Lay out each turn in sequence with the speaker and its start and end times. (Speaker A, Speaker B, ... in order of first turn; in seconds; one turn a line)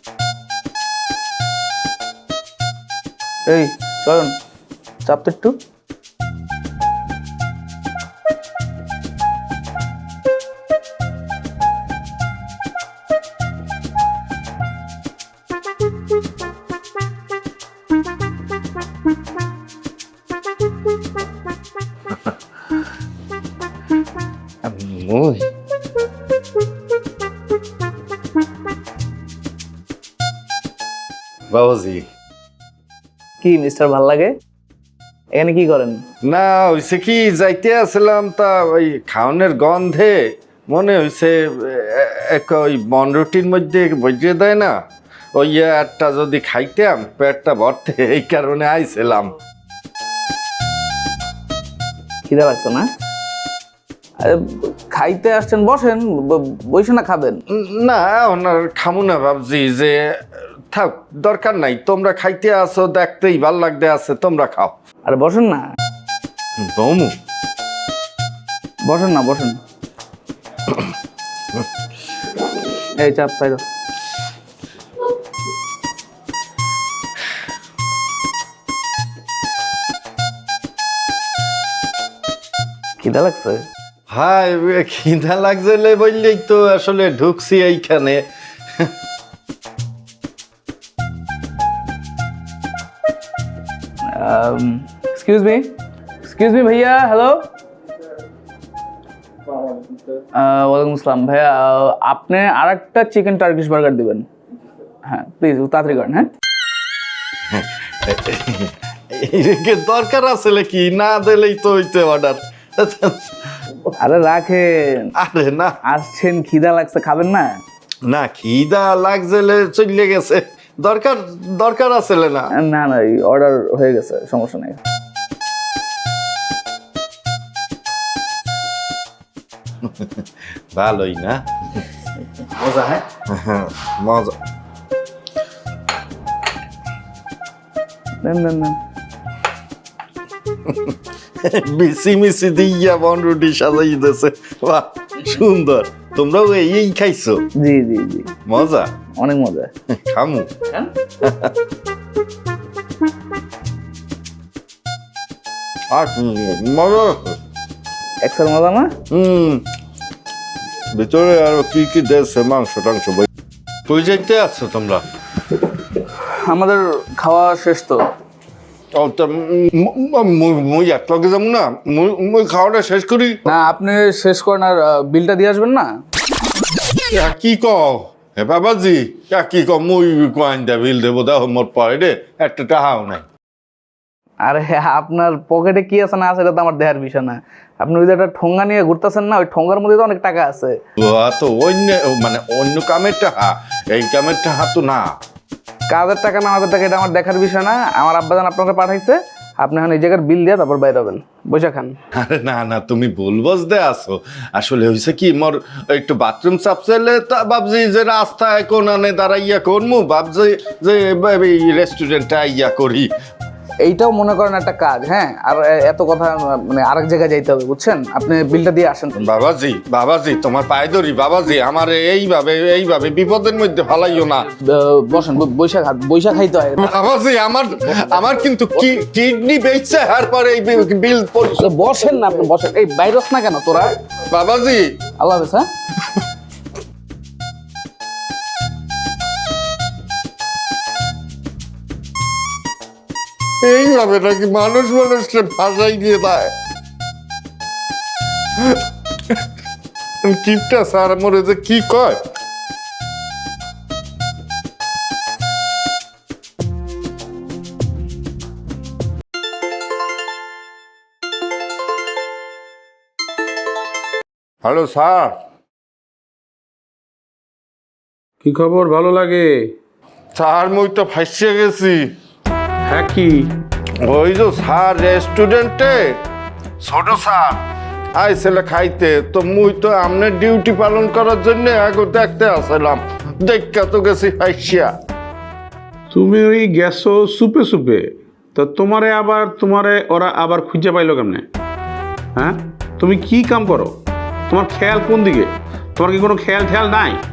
Speaker A: 3.5-4.3
Speaker A: 5.0-5.6
Speaker B: 24.6-25.4
Speaker B: 31.5-32.0
Speaker A: 33.4-34.3
Speaker A: 35.3-36.0
Speaker B: 36.2-44.7
Speaker B: 45.3-49.3
Speaker A: 52.2-52.9
Speaker A: 54.2-57.4
Speaker B: 57.5-64.7
Speaker A: 65.0-65.6
Speaker B: 66.6-67.1
Speaker A: 68.9-69.6
Speaker A: 73.0-73.6
Speaker A: 83.0-83.6
Speaker B: 84.1-88.2
Speaker A: 94.0-95.7
Speaker A: 96.2-97.5
Speaker A: 100.3-104.2
Speaker A: 105.0-106.3
Speaker B: 107.5-113.4
Speaker A: 114.0-115.1
Speaker B: 115.2-115.8
Speaker A: 115.9-117.6
Speaker B: 118.0-122.5
Speaker A: 122.5-124.8
Speaker B: 129.8-130.2
Speaker B: 130.7-131.8
Speaker A: 132.7-132.9
Speaker B: 133.3-134.3
Speaker A: 138.2-138.8
Speaker B: 140.6-147.4
Speaker A: 147.6-148.3
Speaker B: 148.5-148.9
Speaker A: 149.2-149.7
Speaker B: 149.9-150.5
Speaker B: 151.2-151.5
Speaker B: 155.9-157.3
Speaker A: 158.2-158.9
Speaker B: 159.1-159.6
Speaker B: 160.9-163.3
Speaker B: 163.9-165.0
Speaker A: 166.2-168.0
Speaker B: 168.9-173.4
Speaker A: 173.5-175.9
Speaker B: 177.1-183.2
Speaker A: 184.4-190.8
Speaker B: 191.0-195.1
Speaker A: 195.9-201.9
Speaker B: 202.1-213.1
Speaker A: 213.8-219.3
Speaker B: 219.2-224.4
Speaker A: 224.5-227.0
Speaker B: 226.8-231.7
Speaker A: 231.6-234.0
Speaker B: 234.3-234.9
Speaker A: 235.2-235.7
Speaker B: 243.6-246.5
Speaker B: 250.2-252.2
Speaker B: 264.6-265.4
Speaker C: 268.4-269.6
Speaker B: 270.3-272.0
Speaker C: 272.9-273.5
Speaker B: 274.0-276.1
Speaker B: 276.8-277.6
Speaker B: 278.1-284.9
Speaker C: 286.1-291.4
Speaker C: 292.4-293.9
Speaker C: 294.5-297.2